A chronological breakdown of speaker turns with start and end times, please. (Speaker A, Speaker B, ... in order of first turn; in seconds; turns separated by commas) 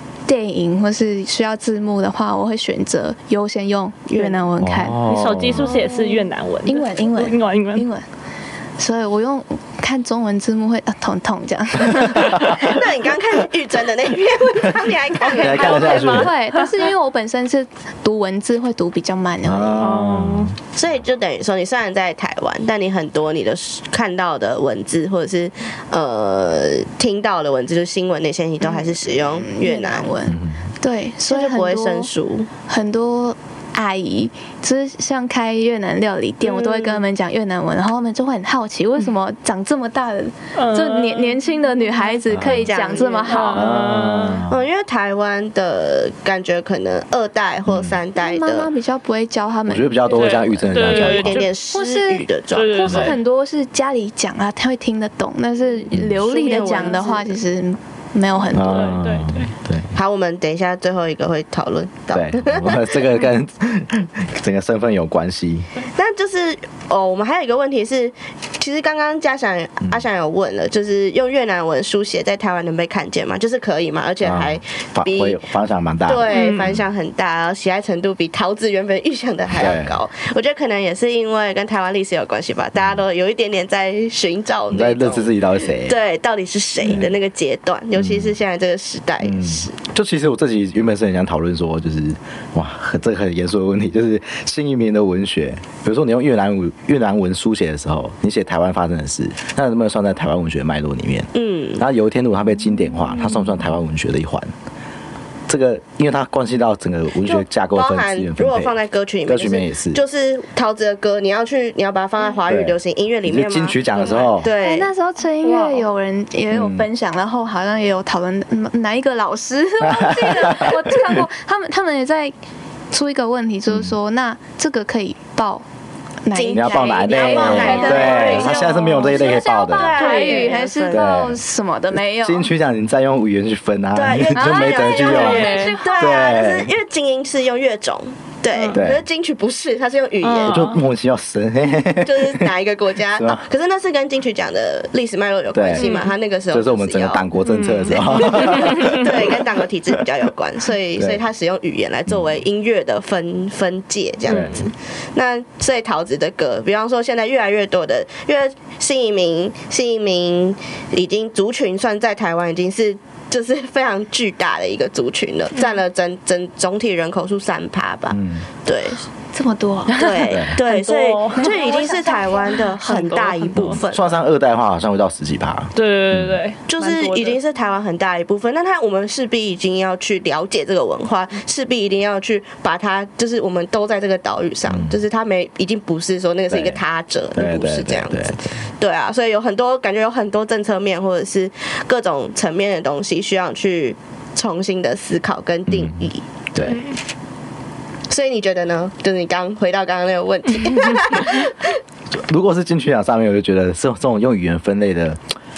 Speaker A: 0.3-5.0, Speaker B: 4.1-4.4, Speaker C: 4.6-5.8, Speaker D: 5.1-7.9, Speaker B: 5.5-6.2, Speaker A: 6.7-8.0, Speaker A: 8.8-12.6, Speaker B: 12.5-16.0, Speaker D: 15.3-16.8, Speaker C: 15.3-16.3, Speaker A: 15.6-20.0, Speaker C: 19.4-20.6, Speaker D: 19.8-20.5, Speaker B: 20.7-30.1, Speaker A: 28.7-32.1, Speaker C: 30.3-30.6, Speaker B: 31.3-32.5, Speaker A: 32.7-43.8, Speaker B: 36.4-37.0, Speaker D: 40.5-41.4, Speaker C: 42.3-42.7, Speaker B: 42.4-43.4, Speaker D: 43.3-44.4, Speaker C: 43.5-44.6, Speaker B: 44.5-48.7, Speaker C: 47.7-48.0, Speaker A: 48.2-50.9, Speaker C: 49.7-51.5, Speaker D: 50.1-51.5, Speaker B: 50.9-53.1, Speaker A: 51.7-59.0, Speaker D: 52.5-53.2, Speaker B: 56.2-57.4, Speaker C: 58.5-59.9, Speaker D: 58.6-59.5, Speaker B: 59.9-63.0, Speaker C: 62.1-65.7, Speaker B: 66.0-75.4, Speaker C: 74.2-76.8, Speaker B: 76.1-89.8, Speaker D: 76.3-76.7, Speaker C: 79.5-80.0, Speaker C: 84.7-86.0, Speaker C: 88.0-88.4, Speaker C: 89.2-104.5, Speaker B: 101.3-101.8, Speaker C: 105.5-110.0, Speaker B: 107.2-114.9, Speaker C: 112.5-114.5, Speaker A: 114.5-122.3, Speaker D: 115.4-115.8, Speaker C: 116.5-116.9, Speaker C: 119.8-121.2, Speaker A: 122.9-125.7, Speaker A: 126.2-132.5, Speaker B: 126.3-131.2, Speaker C: 126.5-130.0, Speaker D: 129.9-130.6, Speaker C: 130.9-131.4, Speaker C: 132.2-136.7, Speaker B: 133.9-140.7, Speaker A: 134.2-136.4, Speaker D: 135.1-135.8, Speaker D: 138.5-138.8, Speaker C: 138.7-139.1, Speaker D: 140.2-140.8, Speaker C: 140.4-142.5, Speaker B: 142.0-147.3, Speaker C: 143.1-143.4, Speaker C: 145.5-145.9, Speaker D: 145.8-146.1, Speaker C: 146.5-149.4, Speaker D: 147.4-149.0, Speaker B: 147.9-169.0, Speaker C: 151.0-151.2, Speaker C: 154.3-154.6, Speaker D: 154.3-154.7, Speaker C: 168.1-168.4, Speaker A: 169.3-170.1, Speaker B: 169.9-174.2, Speaker D: 169.9-172.0, Speaker C: 170.3-170.6, Speaker A: 171.4-173.2, Speaker D: 172.8-173.8, Speaker C: 173.6-176.4, Speaker D: 175.8-177.4, Speaker B: 176.7-196.3, Speaker C: 184.7-185.0, Speaker C: 186.5-186.8, Speaker C: 187.3-188.6, Speaker C: 195.7-196.8, Speaker D: 196.6-197.0, Speaker B: 198.1-201.8, Speaker C: 202.1-205.2